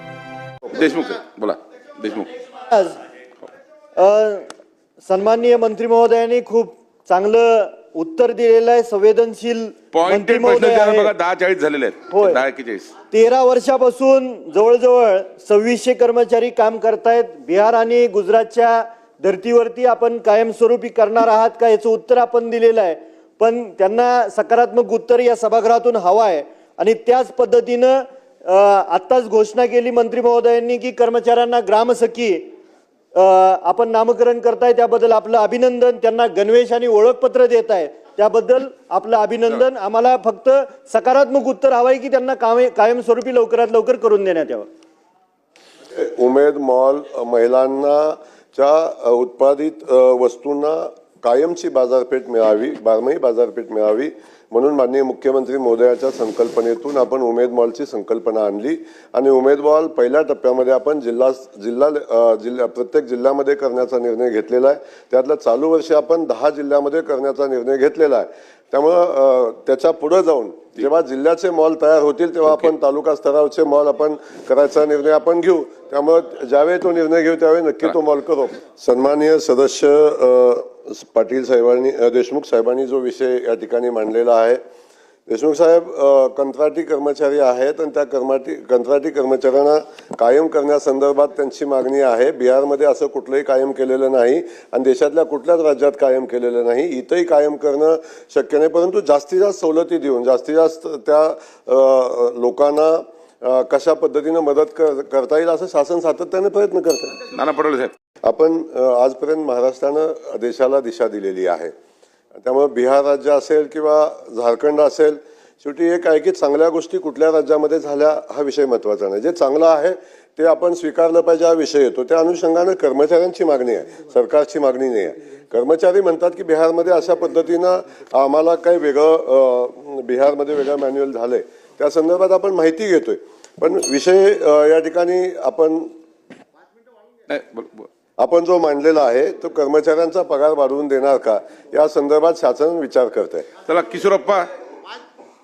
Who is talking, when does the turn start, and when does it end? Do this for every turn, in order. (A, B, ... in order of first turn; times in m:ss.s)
0:00.6-0:02.4 A
0:02.6-0:03.0 B
0:04.0-0:04.5 B
0:05.0-0:11.1 B
0:09.9-0:12.9 A
0:12.1-0:12.4 B
0:13.1-0:32.5 B
0:33.1-0:44.7 B
0:45.9-1:24.6 C
1:25.3-1:47.2 C
1:47.3-1:47.9 A
1:48.2-1:51.7 C
1:52.4-2:15.9 C
2:17.3-2:17.9 A
2:18.2-2:23.5 C
2:23.6-2:24.5 A